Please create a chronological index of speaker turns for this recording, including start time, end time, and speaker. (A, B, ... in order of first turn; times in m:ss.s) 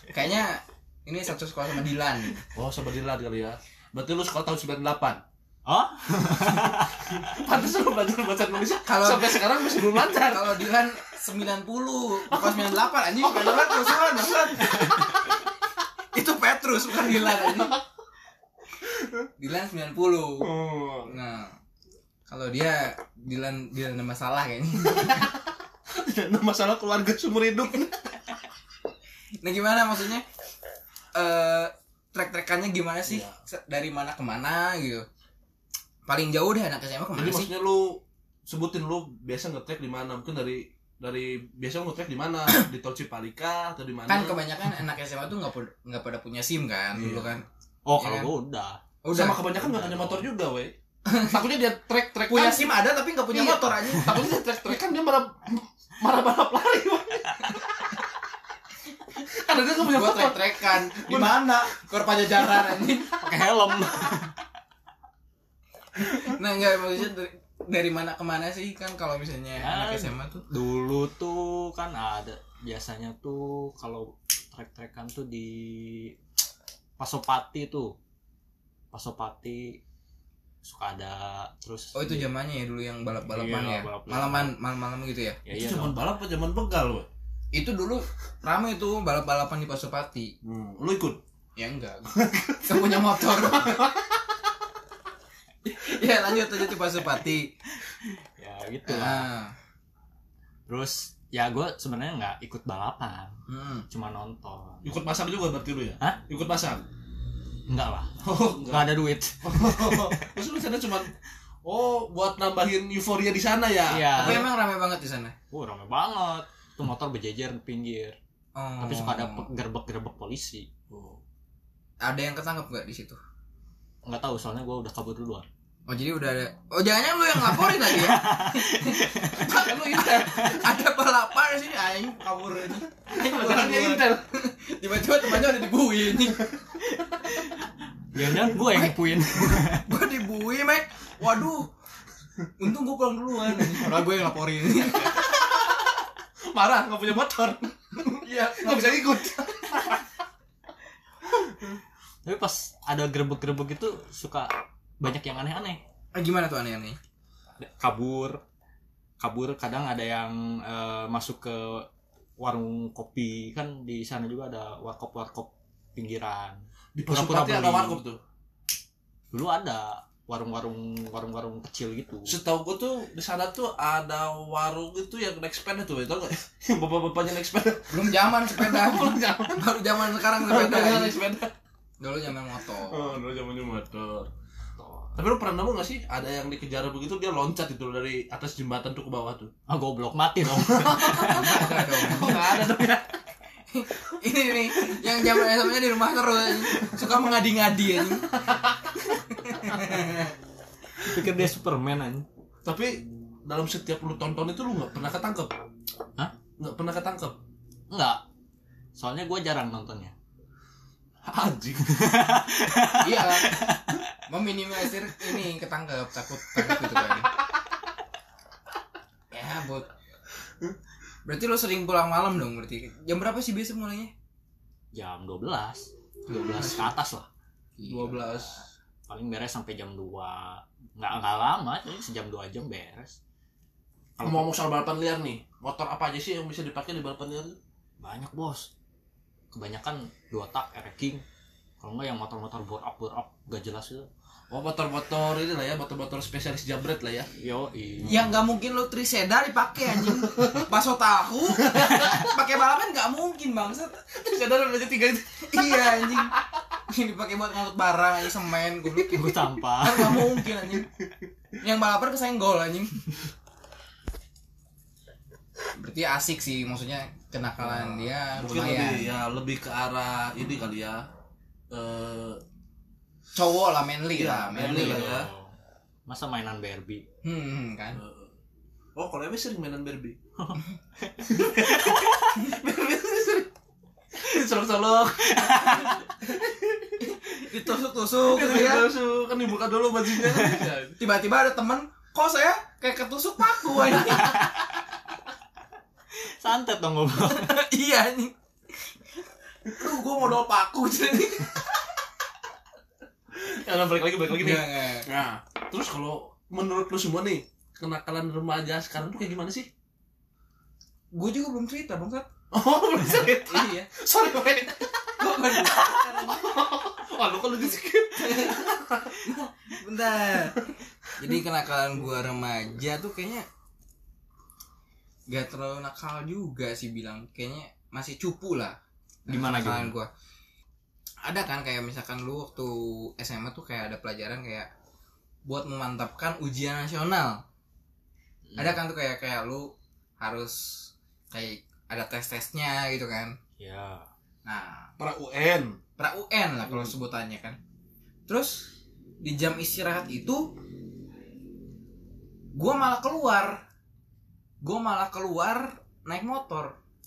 0:00.1-0:02.4 A
0:02.5-0:05.2 B
0:05.6-0:07.3 C
0:06.8-0:10.8 B
0:08.8-0:15.3 A
0:12.3-0:14.8 B
0:16.1-0:17.8 A
0:17.0-0:17.8 B
0:19.0-0:19.2 B
0:19.4-0:20.5 A
0:20.4-0:21.1 B
0:21.0-0:21.6 A
0:22.3-0:25.2 A
0:24.8-0:25.4 B
0:25.9-0:28.2 B
0:29.4-0:30.2 A
0:31.1-0:35.0 A
0:33.0-0:33.3 B
0:36.0-0:37.5 A
0:37.2-0:44.4 B
0:44.1-0:47.4 A
0:47.0-0:47.4 B
0:47.8-0:48.8 C
0:48.0-0:48.3 A
0:49.0-0:49.4 A
0:49.1-0:58.0 B
0:49.6-0:50.3 C
0:51.1-0:51.4 A
0:52.3-0:54.3 A
0:59.3-1:01.6 B
0:59.8-1:03.1 A
1:03.2-1:04.4 C
1:06.0-1:10.4 A
1:09.6-1:16.2 C
1:17.0-1:18.0 C
1:18.9-1:19.8 C
1:20.6-1:22.3 C
1:21.9-1:25.4 A
1:23.2-1:24.5 C
1:25.4-1:26.0 C
1:25.5-1:27.1 B
1:27.5-1:30.3 A
1:30.4-1:31.2 B
1:31.6-1:33.8 A
1:32.1-1:34.2 B
1:35.6-1:37.5 A
1:37.9-1:39.3 C
1:38.9-1:39.5 A
1:40.7-1:44.8 C
1:43.5-1:43.8 A
1:44.8-1:46.8 B
1:47.7-1:50.4 C
1:48.2-1:51.1 B
1:51.6-1:54.5 B
1:53.9-1:54.4 C
1:54.2-1:55.3 A
1:55.5-1:58.2 C
1:58.6-1:59.5 A
1:58.8-2:00.7 C
2:00.9-2:01.2 B
2:02.0-2:03.2 A
2:04.0-2:05.5 C
2:05.9-2:16.5 A
2:07.5-2:09.6 C
2:09.4-2:10.7 B
2:13.1-2:14.2 B
2:18.1-2:19.9 C
2:18.4-2:21.7 A
2:22.6-2:25.2 A
2:24.8-2:30.0 B
2:28.0-2:29.1 A
2:32.2-2:35.8 C
2:36.1-2:37.0 A
2:37.6-2:38.4 C
2:39.2-2:48.0 C
2:46.9-2:48.2 B
2:49.3-2:52.4 C
2:52.2-3:01.5 B
2:57.9-3:01.2 A
3:02.0-3:03.1 A
3:02.9-3:04.3 B
3:04.8-3:05.1 C
3:05.1-3:09.5 B
3:09.7-3:12.1 C
3:10.5-3:13.2 B
3:11.3-3:12.4 A
3:13.7-3:18.3 A
3:16.6-3:17.1 B
3:18.1-3:19.1 B
3:19.3-3:20.3 A
3:19.7-3:20.0 B
3:21.0-3:22.3 C
3:22.6-3:25.5 B
3:26.6-3:27.4 B
3:27.9-3:28.2 C
3:28.9-3:30.1 C
3:31.2-3:32.2 B
3:31.9-3:34.0 C
3:33.0-3:33.7 A
3:34.3-3:37.3 A
3:36.7-3:37.1 B
3:39.3-3:39.9 A
3:41.2-3:44.1 A
3:44.9-3:47.3 C
3:46.3-3:46.9 A
3:47.8-3:48.6 A
3:47.8-3:48.6 B
3:49.1-3:53.2 C
3:54.2-3:57.6 B
3:58.0-3:58.7 C
3:59.5-4:01.2 C
4:01.8-4:04.1 C
4:04.5-4:07.3 B
4:07.4-4:08.3 C
4:08.0-4:14.0 A
4:10.1-4:10.7 B
4:11.6-4:12.3 B
4:11.8-4:12.2 C
4:14.1-4:16.4 B
4:15.5-4:16.3 A
4:16.9-4:20.9 A
4:19.0-4:20.4 C
4:21.6-4:23.1 A
4:25.8-4:29.1 A
4:28.4-4:31.0 B
4:31.7-4:32.4 B
4:33.4-4:35.1 A
4:34.2-4:35.3 B
4:34.5-4:35.5 C
4:36.1-4:37.0 C
4:37.2-4:38.0 A
4:37.9-4:38.3 B
4:39.0-4:40.2 B
4:40.4-4:42.4 C
4:41.3-4:43.5 B
4:44.1-4:47.0 B
4:45.2-4:46.0 C
4:47.0-4:48.9 A
4:48.2-4:51.0 B
4:50.2-4:50.7 C
4:51.0-4:54.5 A
4:56.1-4:57.6 C
4:57.2-4:58.3 A
4:59.7-5:01.6 A
5:03.3-5:09.7 B
5:04.3-5:05.1 A
5:11.1-5:12.3 A
5:12.5-5:19.2 B
5:13.5-5:13.9 A
5:15.2-5:16.5 A
5:18.2-5:18.7 A
5:19.2-5:23.4 A
5:25.3-5:30.1 A
5:29.3-5:29.9 C
5:31.2-5:34.7 A
5:35.4-5:37.4 A
5:38.5-5:38.8 C
5:38.6-5:43.4 A
5:43.6-5:44.1 C
5:44.4-5:44.9 A
5:45.0-5:45.8 B
5:46.0-5:47.6 A
5:48.3-5:48.7 A
5:49.2-5:50.5 A
5:52.6-5:53.6 A
5:54.6-5:56.8 A